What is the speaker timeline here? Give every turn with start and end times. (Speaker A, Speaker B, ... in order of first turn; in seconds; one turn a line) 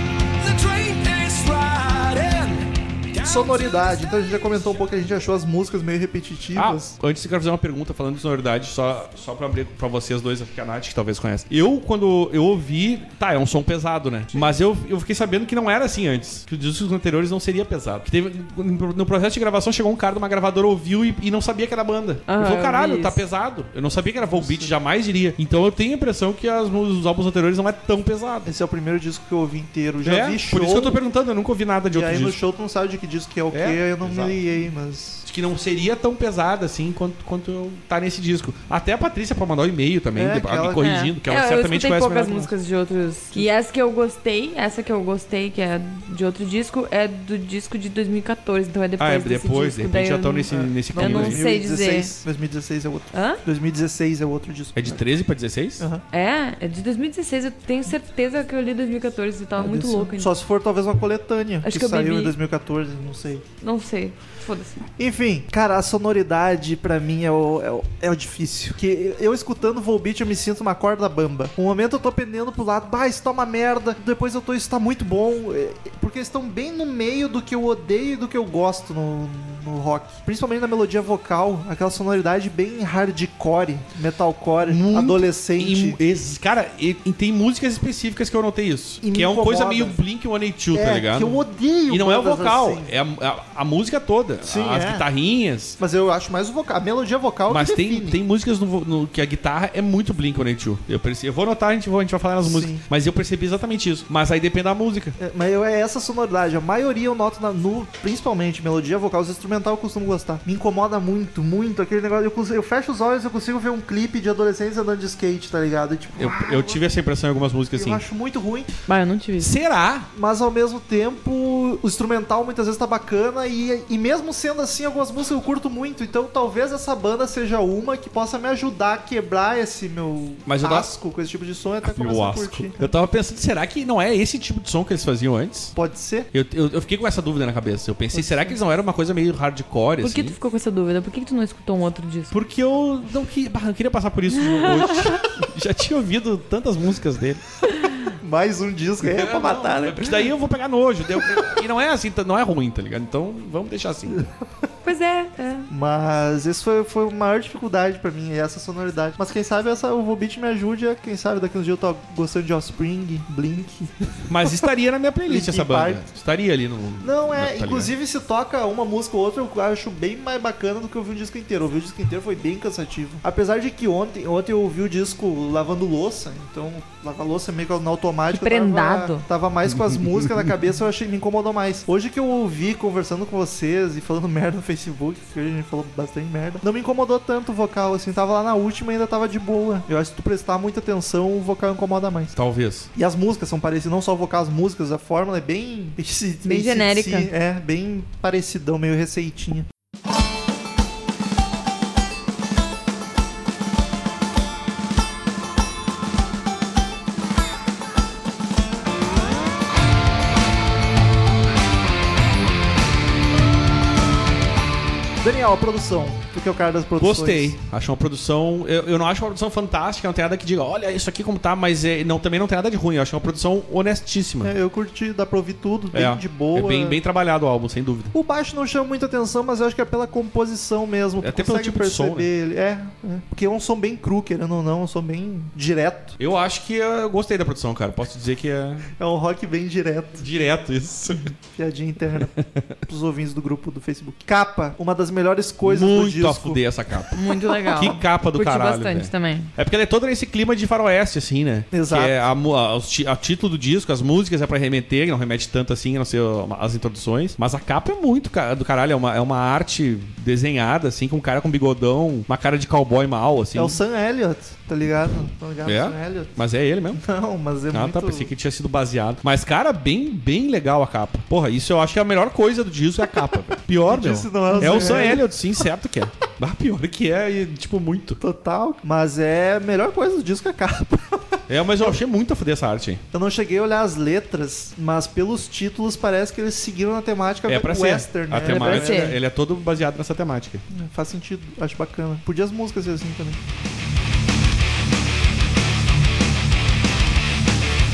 Speaker A: 0.4-4.9
Speaker B: 3.2-7.0
Speaker C: 6.5-28.5
Speaker D: 22.3-23.2
Speaker B: 24.2-24.7
Speaker B: 28.4-31.0
Speaker C: 30.0-32.4
Speaker B: 31.9-35.2
Speaker C: 33.5-34.4
Speaker C: 35.3-42.5
Speaker B: 40.1-41.0
Speaker D: 40.8-52.1
Speaker C: 49.0-51.4
Speaker B: 50.5-55.0
Speaker D: 53.1-53.4
Speaker C: 54.8-55.9
Speaker D: 56.1-60.3
Speaker B: 59.6-63.5
Speaker D: 61.6-62.4
Speaker D: 63.6-64.8
Speaker B: 65.0-86.0
Speaker C: 84.7-95.8
Speaker B: 89.0-90.0
Speaker B: 90.7-92.9
Speaker B: 94.4-95.1
Speaker B: 95.8-98.2
Speaker C: 97.5-105.2
Speaker B: 102.4-102.8
Speaker B: 105.2-116.8
Speaker C: 116.2-118.0
Speaker B: 117.8-118.7
Speaker D: 118.9-119.5
Speaker C: 119.4-120.1
Speaker B: 120.1-132.9
Speaker C: 130.5-130.9
Speaker C: 131.8-135.7
Speaker B: 135.8-136.3
Speaker C: 136.3-140.3
Speaker B: 138.1-138.6
Speaker D: 140.0-142.3
Speaker C: 142.3-147.5
Speaker D: 144.5-145.2
Speaker B: 148.2-150.3
Speaker C: 149.0-154.2
Speaker B: 151.2-151.5
Speaker D: 154.8-155.7
Speaker B: 155.7-164.7
Speaker C: 164.3-167.9
Speaker B: 165.3-166.0
Speaker B: 167.0-192.3
Speaker D: 178.3-179.2
Speaker C: 179.7-180.4
Speaker C: 192.3-192.9
Speaker B: 192.9-199.7
Speaker D: 196.4-197.3
Speaker B: 215.2-217.6
Speaker C: 217.0-224.5
Speaker B: 224.4-227.0
Speaker C: 225.9-228.1
Speaker B: 228.1-236.2
Speaker C: 231.2-232.3
Speaker C: 236.2-238.9
Speaker B: 239.0-240.3
Speaker C: 240.2-241.3
Speaker B: 241.3-242.3
Speaker C: 242.2-242.8
Speaker B: 242.9-246.6
Speaker C: 245.6-263.8
Speaker D: 247.1-249.5
Speaker B: 251.7-252.2
Speaker B: 263.5-266.4
Speaker C: 265.6-267.0
Speaker B: 266.9-268.3
Speaker C: 267.7-278.2
Speaker B: 273.9-275.3
Speaker B: 278.2-282.0
Speaker C: 281.5-283.0
Speaker B: 283.1-289.2
Speaker C: 287.5-290.6
Speaker D: 288.4-289.2
Speaker B: 290.7-293.4